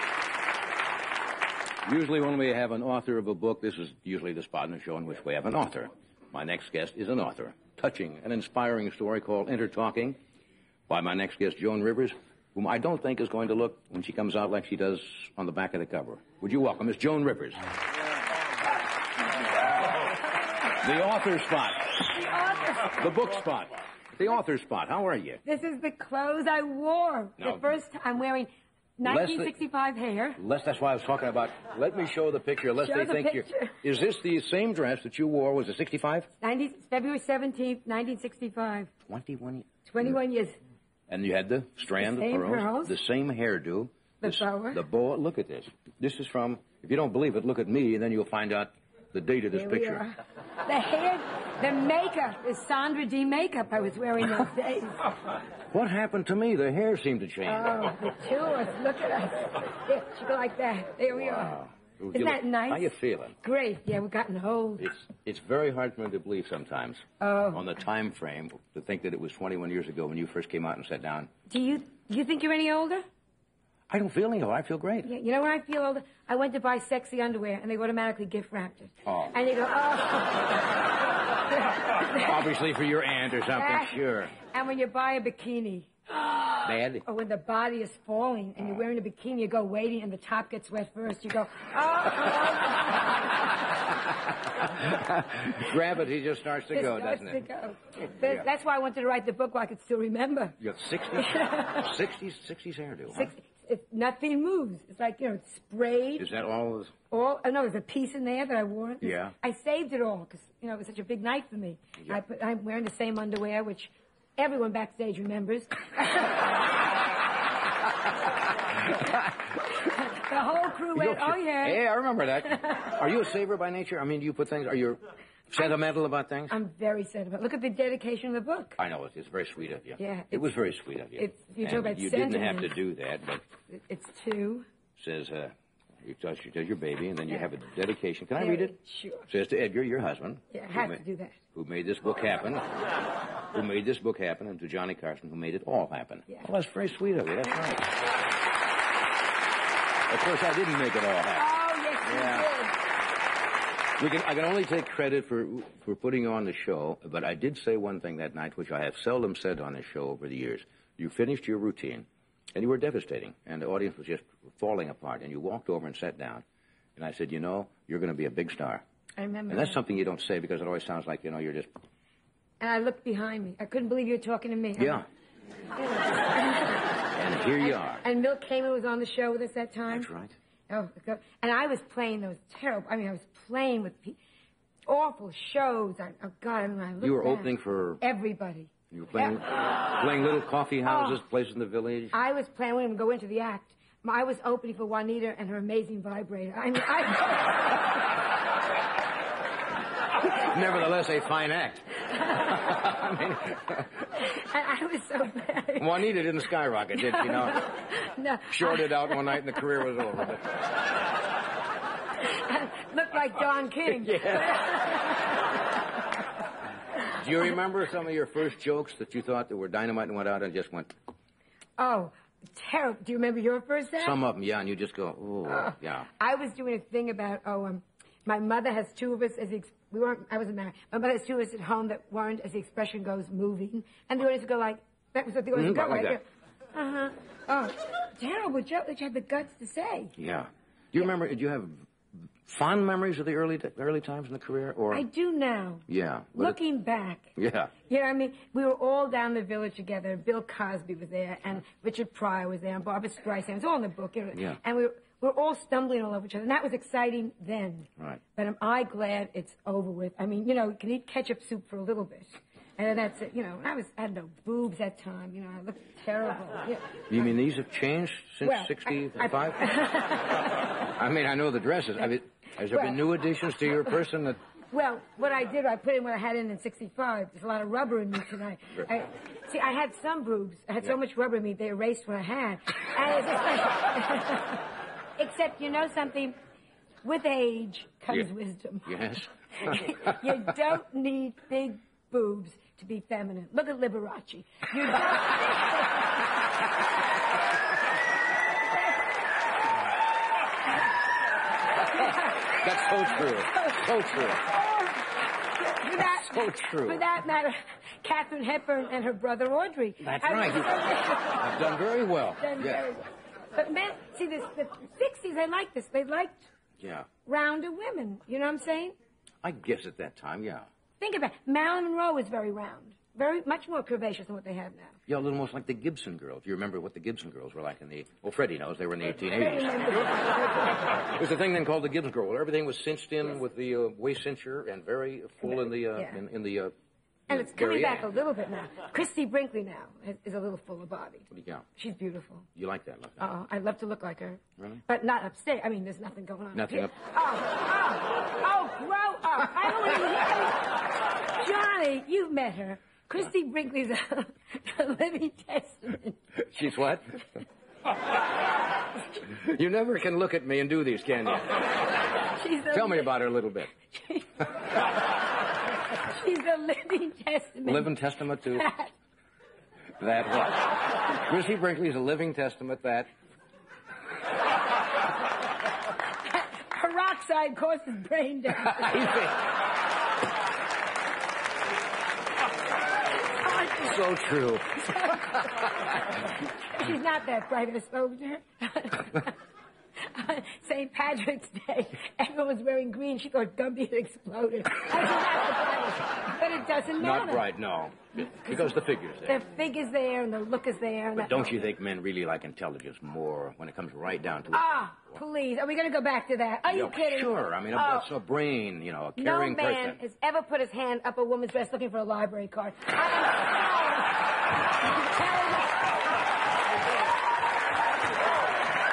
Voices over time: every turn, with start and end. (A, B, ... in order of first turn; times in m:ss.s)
0:01.9-0:10.2 A
0:10.9-0:17.6 A
0:20.7-0:21.9 A
0:22.0-0:23.0 B
0:23.0-0:25.4 A
0:25.4-0:30.4 B
0:27.4-0:27.7 A
0:29.0-0:29.5 A
0:30.4-0:36.3 A
0:32.8-0:33.8 B
0:36.4-0:38.9 B
0:39.1-0:40.2 A
0:39.9-0:40.6 B
0:41.1-0:50.0 A
0:42.0-0:43.0 B
0:44.2-0:44.8 B
0:49.5-0:55.0 B
0:55.7-0:57.9 A
0:57.5-1:01.6 B
1:01.1-1:03.4 A
1:02.1-1:04.9 B
1:04.8-1:11.3 A
1:07.2-1:07.6 B
1:11.5-1:13.0 B
1:13.9-1:15.1 A
1:15.0-1:20.6 B
1:19.1-1:19.3 A
1:21.5-1:22.4 B
1:22.1-1:24.3 A
1:23.6-1:33.4 B
1:26.6-1:27.0 A
1:34.8-1:37.4 A
1:36.7-1:40.6 B
1:40.6-1:43.3 A
1:41.2-1:41.9 B
1:43.1-1:46.3 B
1:46.2-1:46.9 A
1:47.1-1:56.4 B
1:49.0-1:49.3 A
1:59.7-2:01.8 B
2:00.9-2:06.5 A
2:06.5-2:08.8 B
2:08.8-2:13.4 A
2:10.0-2:10.4 B
2:11.2-2:12.8 B
2:13.7-2:14.7 B
2:15.0-2:18.7 A
2:18.3-2:19.3 B
2:19.3-2:21.0 A
2:20.5-2:21.4 B
2:21.5-2:22.7 A
2:23.5-2:27.9 A
2:30.1-2:31.5 A
2:31.4-2:32.8 B
2:32.0-2:32.5 A
2:34.0-2:46.4 A
2:47.0-2:48.8 A
2:49.2-2:49.8 B
2:49.5-2:51.7 A
2:52.6-2:55.0 B
2:54.8-2:55.0 A
2:55.8-2:57.0 B
2:57.1-2:58.0 A
2:57.6-3:00.1 B
2:59.9-3:00.4 A
3:00.7-3:04.2 B
3:04.9-3:09.4 B
3:07.0-3:08.0 A
3:08.9-3:12.1 A
3:10.8-3:11.2 B
3:12.1-3:17.9 B
3:20.3-3:23.9 A
3:24.2-3:25.9 B
3:25.8-3:27.7 A
3:27.1-3:29.6 B
3:28.5-3:30.4 A
3:32.2-3:35.4 B
3:33.9-3:34.7 A
3:37.1-3:40.9 A
3:41.8-3:44.2 B
3:44.0-3:46.1 A
3:45.5-4:00.1 B
3:55.5-3:56.2 A
4:00.2-4:01.8 A
4:02.4-4:05.1 A
4:04.9-4:07.3 B
4:05.9-4:06.6 A
4:07.4-4:07.7 A
4:07.9-4:27.0 B
4:27.1-4:29.7 A
4:28.4-4:30.6 B
4:30.9-4:34.4 A
4:34.7-4:44.6 B
4:45.2-4:46.4 B
4:47.0-4:49.1 B
4:48.9-4:50.2 A
4:49.6-4:56.0 B
5:01.9-5:04.4 A
5:01.9-5:02.3 B
5:03.1-5:11.6 B
5:06.0-5:07.0 A
5:10.0-5:10.7 A
5:11.4-5:12.9 A
5:12.4-5:16.5 B
5:16.8-5:17.1 A
5:17.3-5:18.9 B
5:19.4-5:20.7 A
5:21.0-5:24.9 B
5:25.1-5:30.2 A
5:29.3-5:30.9 B
5:30.9-5:36.7 A
5:37.3-5:38.1 A
5:37.3-5:42.5 B
5:41.3-5:41.6 A
5:42.6-5:43.3 A
5:43.2-5:56.3 B
5:46.6-5:46.9 A
5:56.5-5:57.2 A
5:59.3-6:01.8 A
6:02.3-6:03.1 B
6:02.7-6:03.7 A
6:03.9-6:04.3 B
6:05.9-6:08.9 B
6:07.6-6:08.7 A
6:10.0-6:13.1 A
6:16.3-6:19.0 B
6:18.6-6:19.4 A
6:23.4-6:25.6 A
6:24.8-6:29.4 B
6:30.1-6:37.4 B
6:37.0-6:39.4 A
6:39.3-6:41.6 B
6:41.2-6:44.7 A
6:44.5-6:48.1 B
6:46.7-6:50.0 A
6:49.2-6:54.2 B
6:54.8-6:55.8 B